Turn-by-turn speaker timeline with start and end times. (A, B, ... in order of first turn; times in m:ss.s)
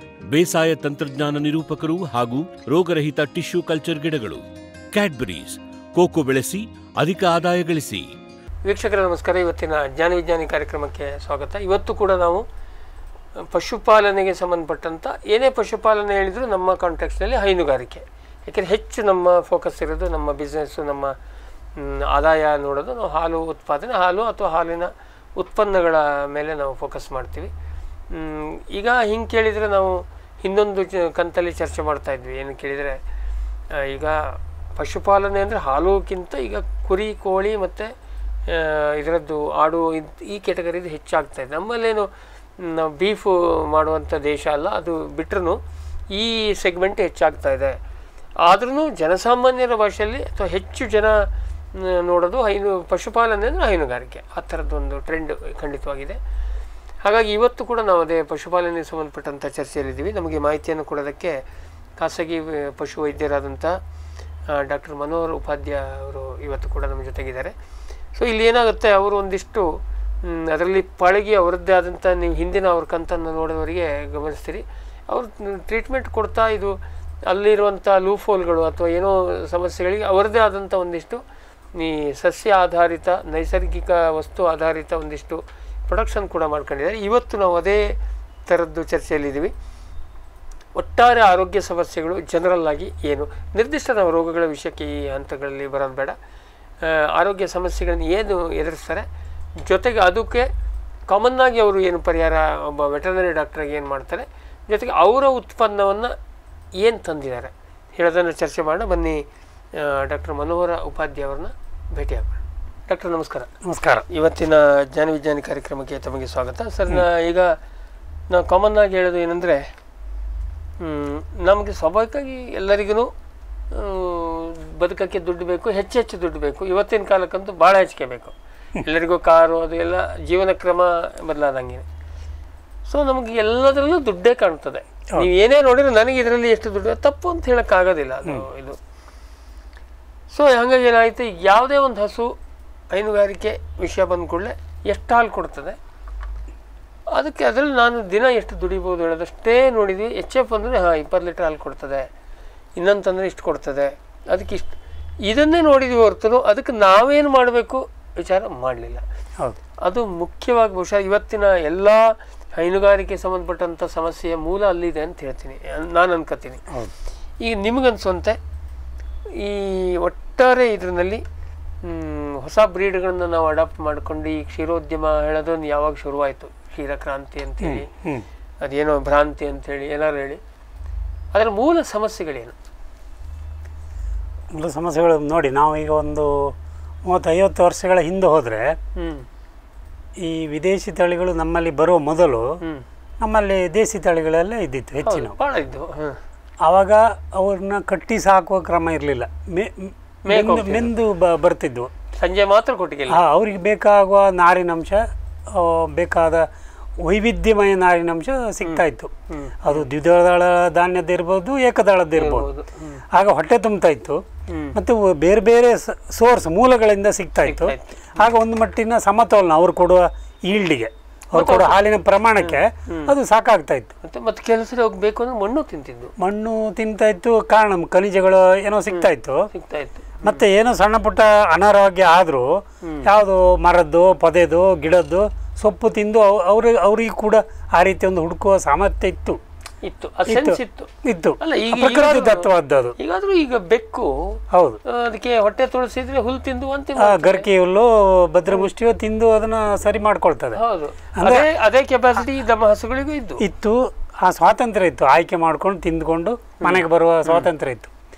0:00.3-0:04.4 A
0:04.9-0:08.0 A
0:08.6-0:12.4 B
0:13.4-0:21.1 B
0:21.8-0:27.5 B
0:28.1-0:33.0 B
0:33.7-0:34.2 B
0:34.8-0:37.9 B
0:38.5-0:42.1 B
0:42.6-0:45.6 B
0:46.1-0:47.8 B
0:48.4-0:51.2 B
0:51.7-0:56.2 B
0:57.0-1:01.4 B
1:02.0-1:03.7 B
1:04.5-1:07.5 B
1:08.2-1:09.7 B
1:10.2-1:16.7 B
1:17.2-1:21.2 B
1:21.8-1:27.8 B
1:28.5-1:29.5 B
1:30.8-1:36.2 B
1:36.8-1:39.0 B
1:39.6-1:40.5 B
1:41.1-1:46.1 B
1:46.8-1:49.2 B
1:49.7-1:53.5 B
1:53.6-1:54.0 C
1:54.1-1:57.5 B
1:58.3-1:59.6 B
2:00.8-2:03.1 B
2:03.7-2:11.8 B
2:12.9-2:18.8 B
2:20.3-2:22.3 B
2:22.9-2:25.8 B
2:27.1-2:32.1 B
2:32.8-2:39.0 B
2:39.8-2:42.0 B
2:42.5-2:46.6 B
2:47.4-2:48.4 B
2:49.4-2:51.2 B
2:51.8-2:57.9 B
2:57.6-2:58.2 C
2:58.6-3:00.4 B
3:01.3-3:02.6 B
3:04.5-3:08.8 C
3:09.0-3:09.2 B
3:10.2-3:12.5 C
3:13.2-3:15.3 C
3:15.0-3:16.2 B
3:16.6-3:21.9 C
3:20.3-3:20.9 B
3:22.2-3:23.2 B
3:23.1-3:26.5 C
3:27.0-3:29.1 C
3:28.6-3:29.9 B
3:29.6-3:32.5 C
3:32.1-3:33.0 B
3:33.1-3:34.2 C
3:34.5-3:34.7 B
3:34.7-3:43.9 C
3:37.4-3:38.2 B
3:41.3-3:41.8 B
3:42.4-3:43.1 B
3:44.0-3:46.1 B
3:46.2-3:49.5 C
3:48.9-3:50.4 B
3:50.2-3:59.4 C
3:59.8-4:00.9 B
4:00.3-4:02.9 C
4:01.4-4:07.5 B
4:04.5-4:04.8 C
4:07.0-4:10.6 C
4:10.5-4:13.4 B
4:11.2-4:11.5 C
4:13.4-4:17.9 C
4:16.6-4:17.5 B